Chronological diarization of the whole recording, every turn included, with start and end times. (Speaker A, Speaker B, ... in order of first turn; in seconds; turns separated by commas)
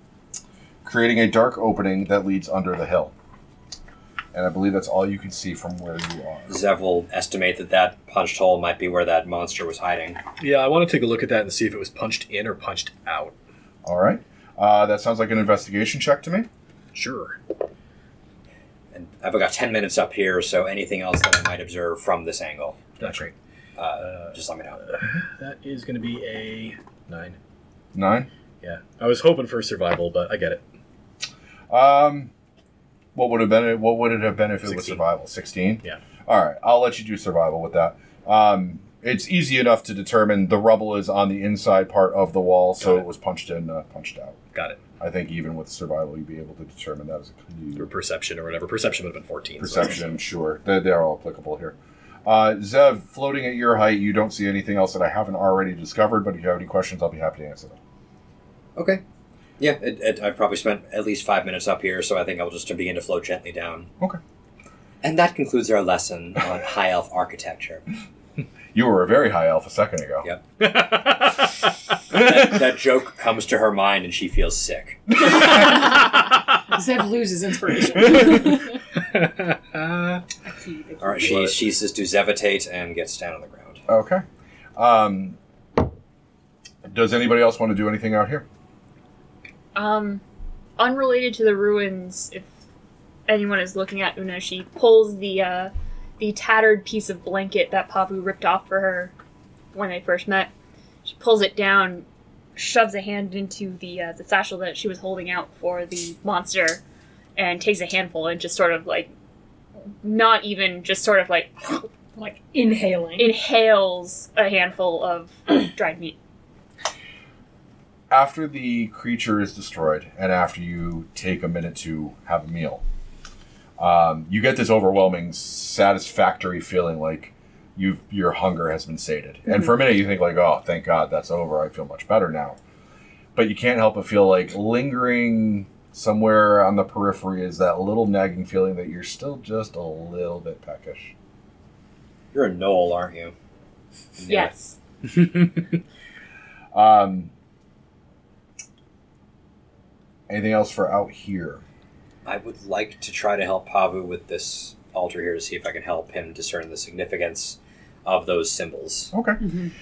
Speaker A: 0.8-3.1, Speaker A: 4.3-6.5, Speaker B: 6.5-10.2, Speaker C: 10.4-13.3, Speaker A: 13.8-16.5, Speaker C: 16.9-17.4, Speaker B: 18.9-22.9, Speaker C: 23.0-23.3, Speaker A: 23.0-23.2, Speaker B: 23.8-24.8, Speaker C: 24.0-27.4, Speaker A: 27.9-28.3, Speaker C: 28.6-30.6, Speaker A: 31.7-32.3, Speaker A: 33.1-44.4, Speaker C: 34.6-35.0, Speaker C: 42.8-43.1, Speaker C: 44.5-44.8, Speaker A: 45.0-47.9, Speaker C: 47.8-50.1, Speaker A: 49.6-57.8, Speaker B: 58.8-59.0, Speaker B: 59.6-63.9, Speaker B: 65.0-67.8, Speaker A: 68.7-70.2, Speaker C: 70.6-71.6, Speaker B: 72.1-75.4, Speaker D: 75.4-76.2, Speaker D: 76.7-78.8, Speaker C: 79.1-80.2, Speaker D: 80.5-81.1, Speaker B: 81.0-83.8, Speaker C: 81.2-81.5, Speaker A: 83.9-84.2, Speaker A: 84.8-85.4, Speaker A: 86.8-88.4, Speaker E: 89.7-90.2, Speaker E: 90.8-92.5, Speaker E: 93.3-99.1, Speaker E: 99.7-100.5, Speaker E: 101.0-106.8, Speaker E: 107.3-109.1, Speaker E: 110.0-111.9, Speaker D: 112.2-113.4, Speaker E: 113.2-116.2, Speaker A: 118.1-122.8, Speaker A: 123.8-132.6, Speaker A: 133.3-141.1, Speaker B: 142.3-143.3, Speaker B: 144.2-144.5, Speaker E: 144.3-144.8, Speaker A: 146.7-147.3, Speaker A: 150.3-151.6, Speaker B: 152.2-159.1, Speaker A: 159.1-159.4